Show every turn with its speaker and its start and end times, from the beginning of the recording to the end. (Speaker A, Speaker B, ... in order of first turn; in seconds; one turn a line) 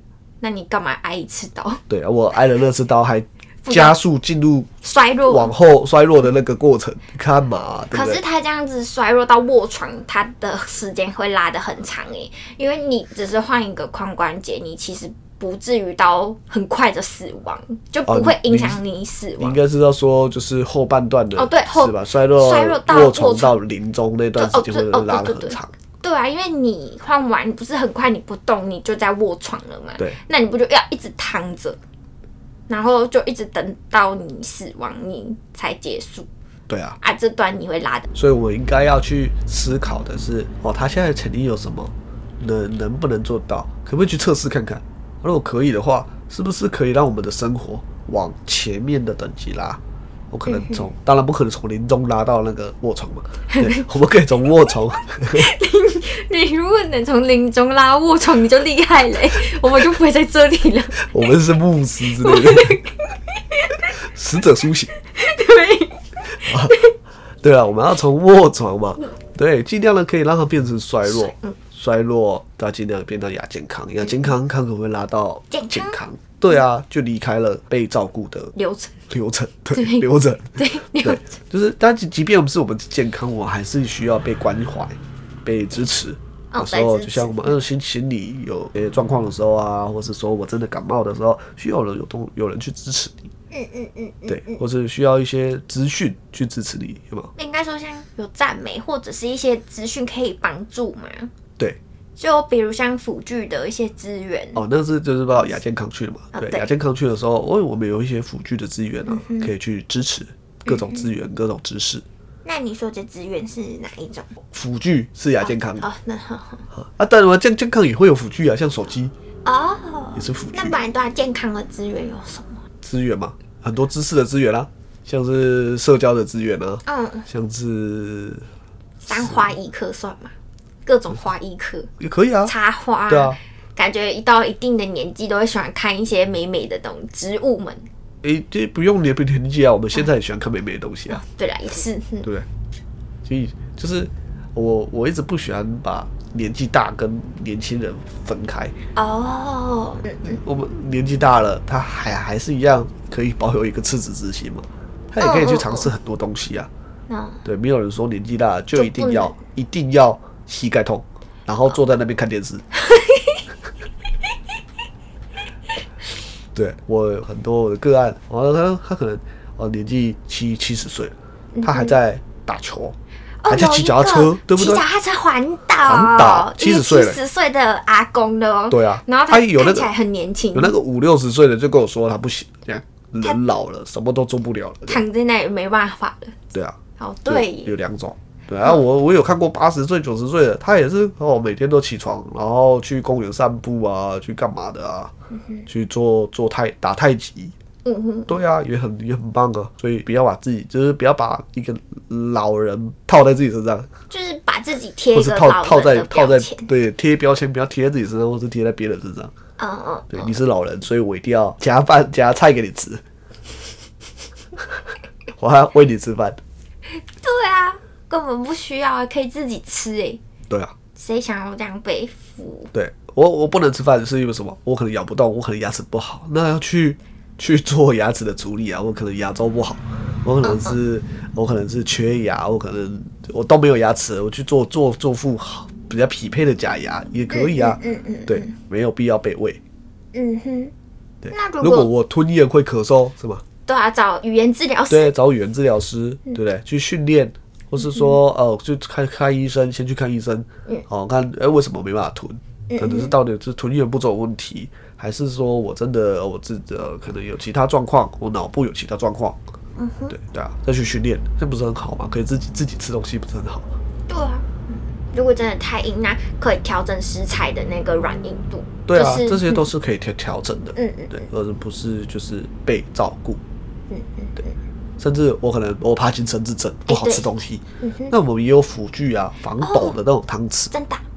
Speaker A: 0.4-1.8
Speaker B: 1.9-4.7
Speaker A: 3.6-4.0
Speaker A: 4.8-5.5
Speaker B: 5.3-8.2
Speaker A: 7.9-19.6
Speaker B: 18.1-18.8
Speaker B: 19.4-25.7
Speaker A: 21.4-23.6
Speaker A: 24.4-31.8
Speaker A: 32.7-36.3
Speaker B: 36.7-37.0
Speaker A: 37.0-38.1
Speaker B: 38.1-55.5
Speaker A: 50.5-50.9
Speaker A: 53.5-53.9
Speaker A: 55.1-61.1
Speaker B: 61.0-62.8
Speaker A: 62.2-63.8
Speaker B: 64.0-64.9
Speaker A: 65.1-66.9
Speaker B: 66.4-66.8
Speaker B: 67.4-78.5
Speaker A: 71.0-71.6
Speaker A: 75.5-76.0
Speaker A: 78.5-79.0
Speaker B: 79.1-93.3
Speaker A: 79.7-80.0
Speaker A: 80.5-81.2
Speaker A: 86.5-87.5
Speaker A: 93.5-94.6
Speaker B: 94.3-97.3
Speaker A: 97.3-101.3
Speaker A: 102.2-104.6
Speaker B: 104.5-112.0
Speaker A: 106.3-106.7
Speaker A: 109.0-109.5
Speaker A: 110.7-111.1
Speaker A: 112.4-114.3
Speaker B: 114.4-115.8
Speaker A: 115.4-116.6
Speaker B: 116.7-119.1
Speaker A: 119.4-122.6
Speaker B: 120.1-120.8
Speaker B: 122.8-128.4
Speaker A: 126.8-127.2
Speaker A: 129.0-130.3
Speaker B: 129.1-129.5
Speaker A: 130.8-131.9
Speaker B: 132.0-132.5
Speaker A: 132.4-137.9
Speaker B: 133.1-133.4
Speaker B: 138.2-141.2
Speaker A: 141.1-142.3
Speaker B: 143.2-148.7
Speaker A: 148.9-150.4
Speaker B: 150.2-156.7
Speaker A: 155.2-155.9
Speaker A: 157.1-157.4
Speaker B: 157.4-162.7
Speaker A: 158.7-159.3
Speaker A: 162.8-163.4
Speaker B: 166.5-172.9
Speaker A: 171.5-171.9
Speaker A: 173.4-180.8
Speaker B: 173.5-174.8
Speaker B: 175.8-177.2
Speaker B: 178.7-179.9
Speaker B: 180.5-185.0
Speaker A: 184.9-186.4
Speaker B: 186.5-195.1
Speaker A: 187.0-187.7
Speaker B: 195.7-197.5
Speaker A: 197.8-198.3
Speaker B: 198.3-203.9
Speaker A: 204.1-206.7
Speaker B: 205.1-209.3
Speaker A: 209.6-210.3
Speaker B: 210.1-213.0
Speaker B: 215.3-216.4
Speaker A: 217.2-220.2
Speaker B: 220.5-220.7
Speaker A: 220.9-222.7
Speaker B: 222.7-239.6
Speaker A: 230.4-230.7
Speaker A: 237.3-238.6
Speaker A: 240.1-240.7
Speaker B: 241.2-243.4
Speaker A: 241.3-241.9
Speaker A: 243.7-245.1
Speaker B: 244.9-259.4
Speaker A: 252.7-253.1
Speaker A: 259.8-260.1
Speaker B: 260.1-263.7
Speaker A: 264.1-269.6
Speaker B: 268.9-273.4
Speaker A: 270.7-271.2
Speaker A: 273.9-274.5
Speaker B: 275.0-280.7
Speaker A: 276.9-278.1
Speaker A: 279.6-280.0
Speaker A: 280.7-281.0